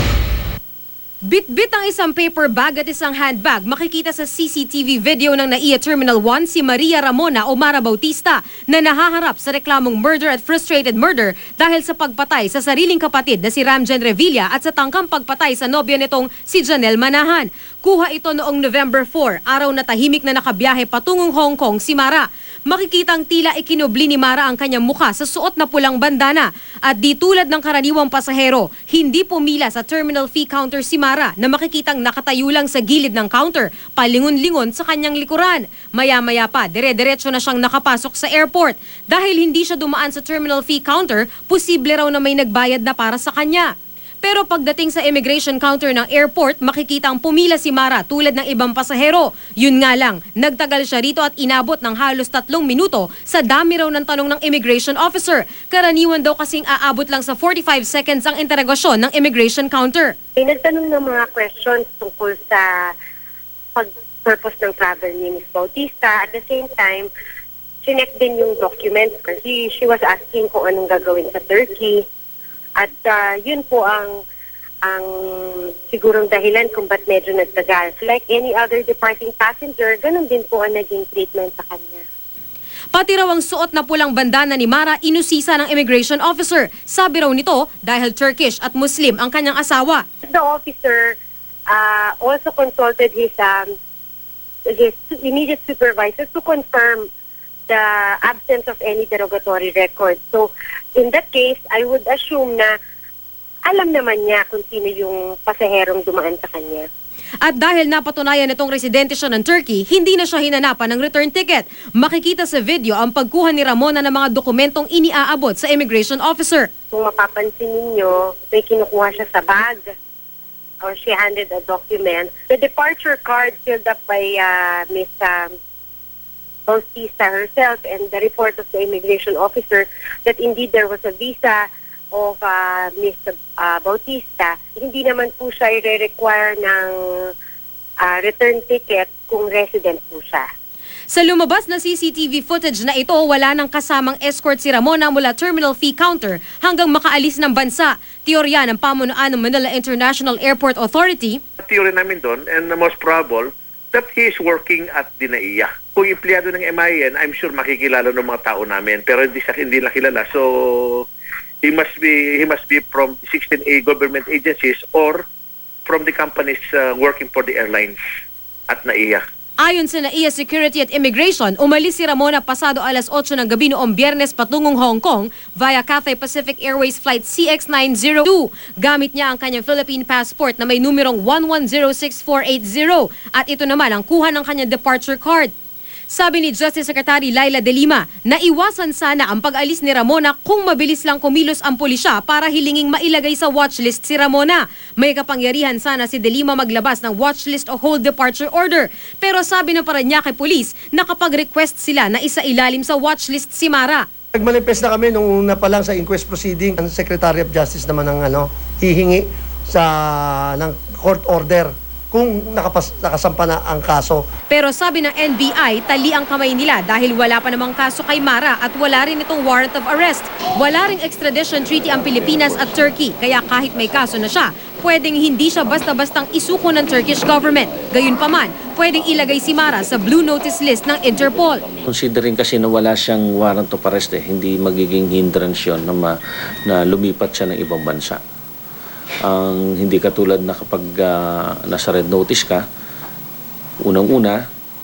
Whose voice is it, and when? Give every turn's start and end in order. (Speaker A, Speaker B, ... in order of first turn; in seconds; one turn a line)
Speaker A: 1.2-60.1
Speaker B: 60.4-62.9
Speaker B: 63.7-67.1
Speaker B: 67.8-72.0
Speaker B: 72.8-74.2
Speaker B: 74.8-82.0
Speaker A: 82.9-90.0
Speaker B: 90.2-91.2
Speaker B: 91.7-93.7
Speaker B: 94.7-97.1
Speaker B: 97.7-102.7
Speaker B: 103.6-106.9
Speaker A: 107.4-116.7
Speaker B: 116.9-119.8
Speaker B: 120.8-125.5
Speaker B: 126.7-137.3
Speaker B: 138.0-140.4
Speaker A: 141.1-151.4
Speaker C: 151.6-161.1
Speaker C: 161.6-165.2
Speaker C: 165.8-168.0
Speaker C: 168.7-169.2
Speaker A: 169.6-185.5
Speaker A: 186.1-204.1
Speaker D: 204.3-209.9
Speaker D: 210.5-214.2
Speaker A: 214.5-231.6
Speaker E: 231.8-236.1
Speaker E: 236.7-238.2
Speaker E: 239.2-242.6
Speaker E: 243.8-244.4